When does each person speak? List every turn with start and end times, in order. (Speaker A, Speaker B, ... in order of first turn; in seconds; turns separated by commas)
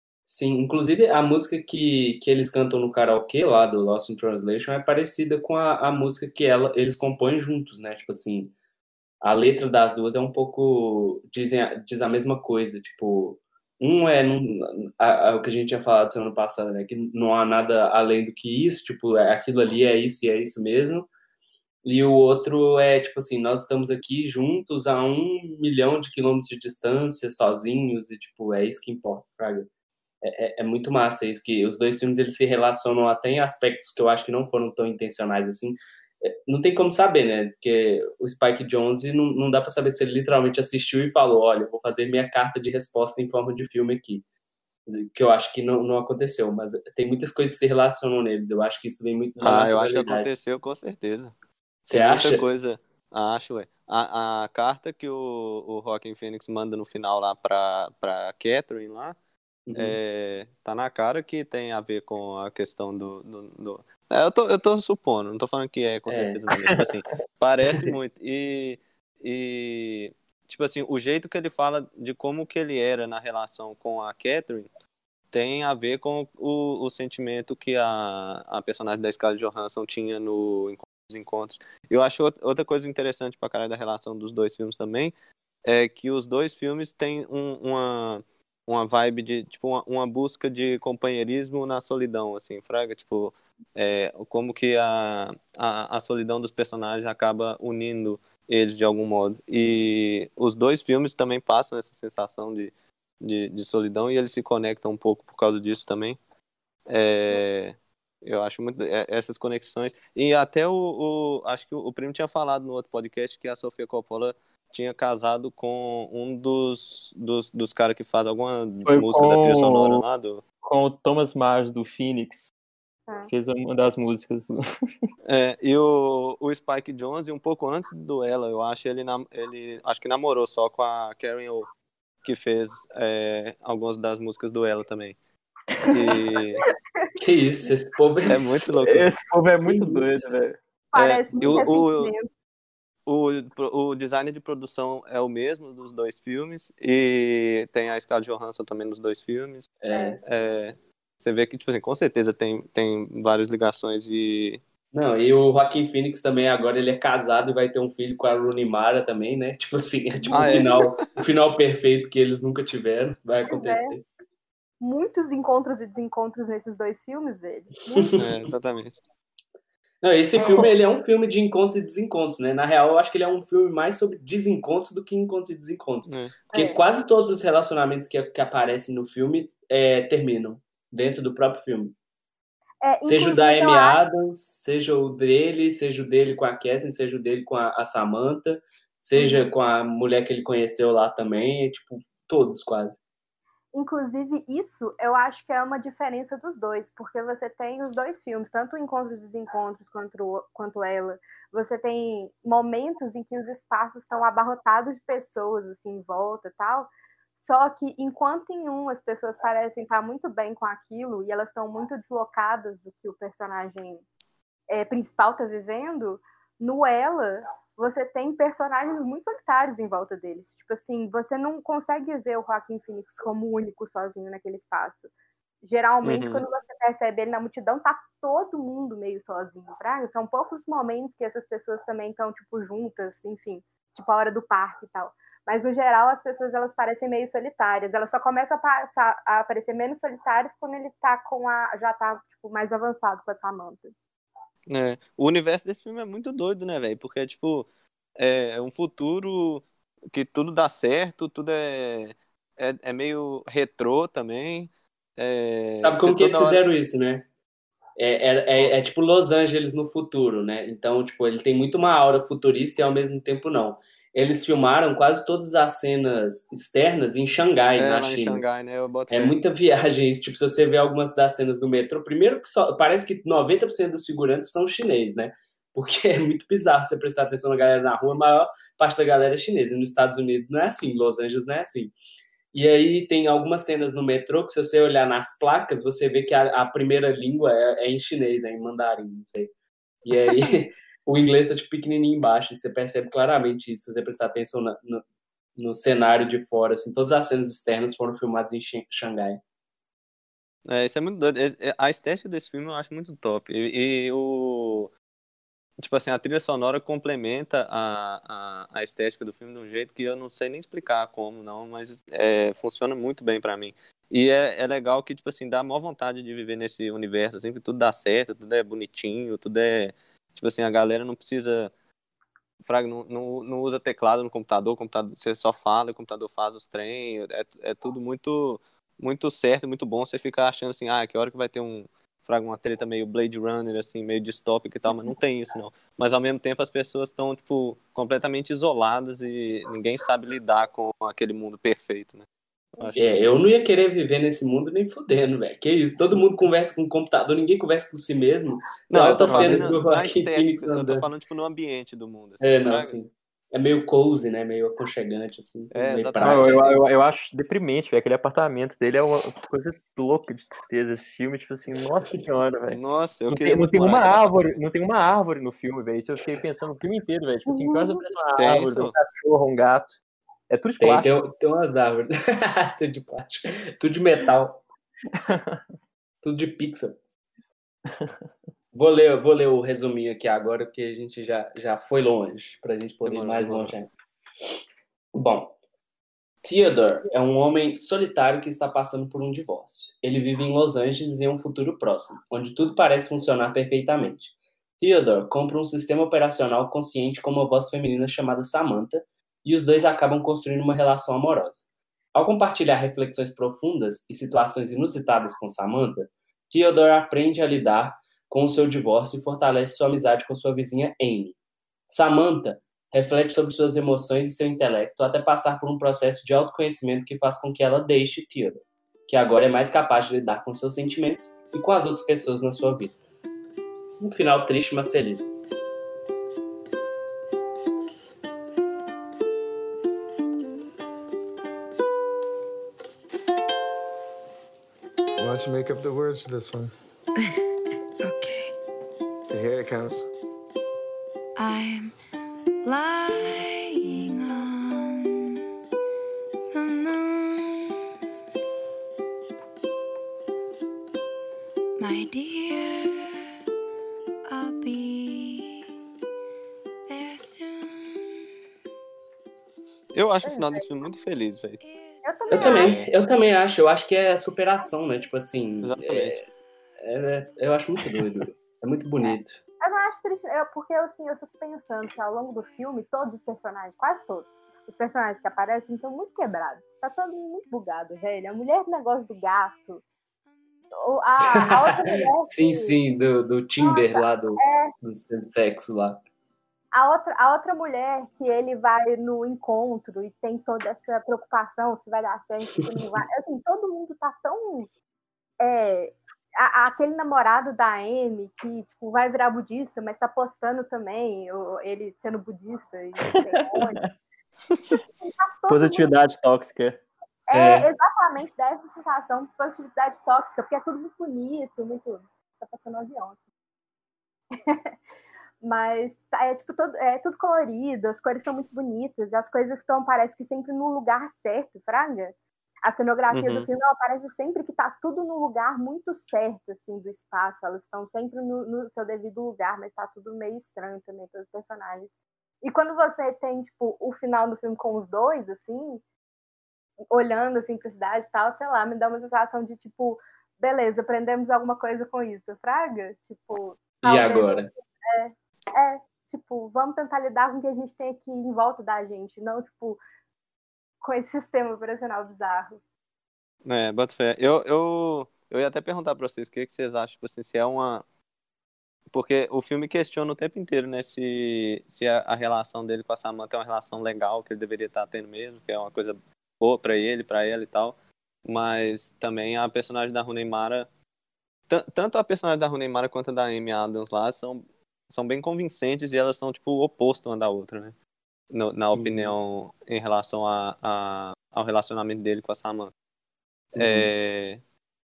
Speaker A: 0.3-8.5, Speaker A: 9.2-21.1, Speaker A: 21.8-29.7, Speaker A: 30.2-44.2, Speaker A: 44.9-50.3, Speaker B: 49.4-51.3, Speaker A: 51.9-52.5, Speaker B: 51.9-59.2, Speaker A: 59.7-60.0, Speaker B: 59.8-74.7, Speaker A: 66.1-66.4, Speaker B: 75.3-85.1, Speaker B: 85.7-106.2, Speaker B: 106.9-120.4, Speaker C: 118.9-120.0, Speaker C: 120.6-122.5, Speaker D: 123.1-123.3, Speaker C: 123.3-124.6, Speaker B: 125.2-131.7, Speaker B: 132.2-135.2, Speaker B: 135.9-136.6, Speaker A: 137.2-138.7, Speaker B: 138.3-139.1, Speaker C: 138.7-140.6, Speaker A: 139.7-140.4, Speaker D: 140.9-142.3, Speaker B: 140.9-142.1, Speaker B: 143.1-149.7, Speaker A: 149.8-150.2, Speaker D: 149.9-150.2, Speaker B: 150.2-154.6, Speaker A: 154.9-164.0, Speaker D: 160.2-160.7, Speaker B: 160.3-161.1, Speaker D: 163.5-163.9, Speaker D: 164.8-168.2, Speaker A: 167.9-168.5, Speaker B: 168.2-169.0, Speaker A: 170.0-181.9, Speaker D: 170.4-170.7, Speaker B: 176.1-176.3, Speaker D: 176.5-176.8, Speaker D: 182.8-184.0, Speaker A: 183.1-193.0, Speaker D: 189.2-189.5, Speaker D: 193.7-214.1, Speaker D: 214.7-225.1, Speaker D: 225.6-243.9, Speaker B: 226.0-226.4, Speaker B: 244.7-256.6, Speaker A: 255.7-257.3, Speaker A: 258.0-268.4, Speaker B: 267.8-269.4, Speaker A: 269.1-281.9, Speaker A: 282.5-289.5, Speaker A: 290.1-295.0, Speaker A: 295.6-299.4, Speaker B: 300.7-304.9, Speaker B: 305.8-321.7, Speaker B: 322.6-342.3, Speaker B: 342.8-343.4, Speaker A: 343.0-351.1, Speaker B: 348.9-352.9, Speaker C: 349.3-349.6, Speaker A: 352.4-356.7, Speaker B: 355.7-356.8, Speaker C: 356.2-370.0, Speaker B: 362.7-364.3, Speaker D: 367.5-368.0, Speaker B: 368.4-368.9, Speaker C: 370.5-371.1, Speaker A: 370.8-374.6, Speaker C: 375.1-375.6, Speaker A: 376.2-377.0, Speaker C: 377.9-378.2, Speaker A: 378.7-383.9, Speaker B: 383.0-383.8, Speaker A: 385.1-385.5, Speaker A: 386.4-411.4, Speaker A: 411.9-422.9, Speaker A: 424.0-425.4, Speaker E: 435.2-436.7, Speaker F: 438.0-438.6, Speaker E: 439.3-440.1, Speaker F: 441.4-442.0, Speaker F: 442.6-445.4, Speaker F: 446.5-447.7, Speaker F: 451.8-453.2, Speaker F: 454.3-455.6, Speaker F: 456.9-458.2, Speaker B: 459.9-461.6, Speaker D: 460.2-460.7, Speaker F: 461.6-462.4, Speaker D: 462.0-462.8, Speaker A: 462.3-466.2, Speaker B: 462.4-462.9, Speaker B: 465.6-466.2, Speaker A: 466.8-469.4, Speaker D: 469.6-479.8, Speaker D: 480.8-482.8, Speaker A: 481.3-486.0, Speaker D: 483.6-484.7, Speaker D: 486.7-494.7, Speaker D: 495.4-503.9, Speaker D: 505.0-505.9, Speaker C: 505.5-506.8, Speaker D: 507.3-513.2, Speaker A: 507.3-507.7, Speaker D: 514.4-514.7, Speaker D: 515.4-531.9, Speaker B: 523.1-523.5, Speaker D: 532.4-535.8, Speaker D: 536.9-549.8, Speaker A: 543.8-544.5, Speaker D: 550.8-552.6, Speaker B: 553.5-557.8, Speaker B: 558.9-570.7, Speaker B: 571.5-577.8, Speaker B: 578.3-582.7, Speaker A: 578.7-579.1, Speaker A: 583.5-583.9, Speaker B: 583.5-584.4